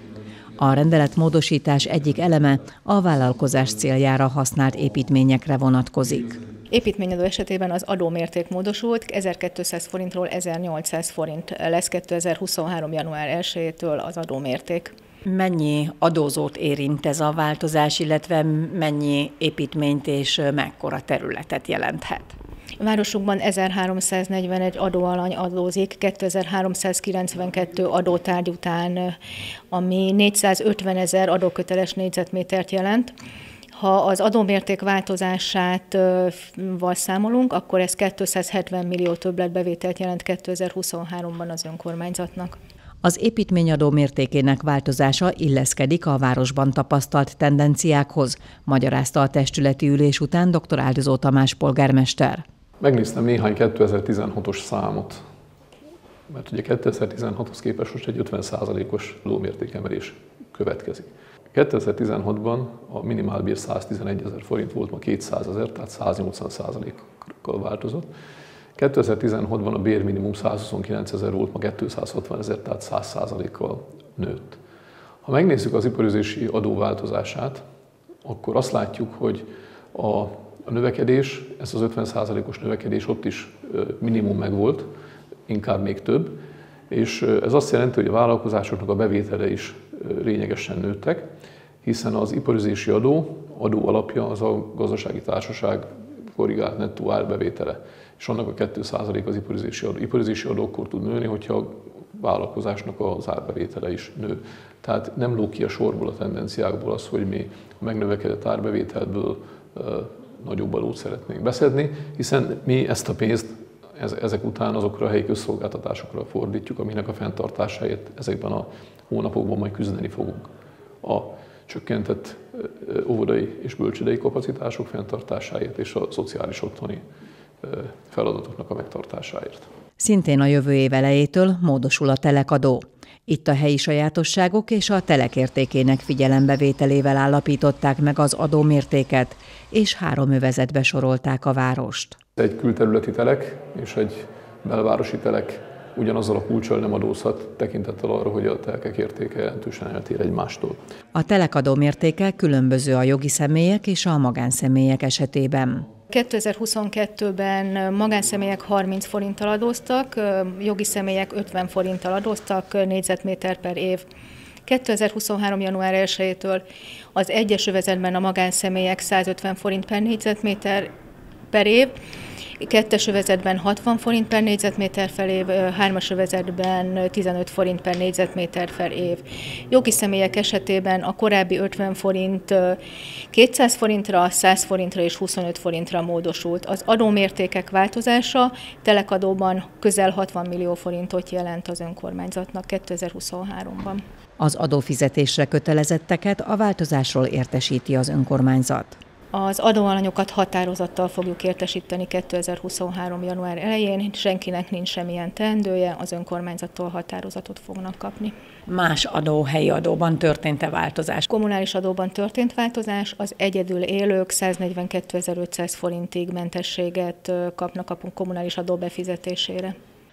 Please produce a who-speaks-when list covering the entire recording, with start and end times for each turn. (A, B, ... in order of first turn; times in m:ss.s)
0:00.6-0:06.4 A
0:06.7-0:14.9 B
0:15.2-0:22.4 A
0:22.8-0:29.2 B
0:29.7-0:33.1 B
0:33.7-0:42.6 B
0:43.0-0:52.4 A
0:52.8-0:55.2 C
0:56.3-1:08.1 C
1:08.8-1:14.6 C
1:15.2-1:17.6 C
1:18.2-1:24.9 C
1:25.5-1:31.3 C
1:31.8-2:00.5 C
2:01.0-2:07.0 C
2:07.6-2:09.7 C
2:10.0-2:22.2 A
2:22.4-2:30.8 C
2:31.1-2:35.9 A
2:36.1-2:44.0 B
2:44.6-2:46.6 B
2:47.1-2:50.9 B
2:51.5-2:51.9 B
2:52.6-3:02.8 B
3:03.3-3:14.0 B
3:14.4-3:19.0 A
3:19.3-3:28.3 B
3:28.7-3:31.2 A
3:31.2-3:39.7 B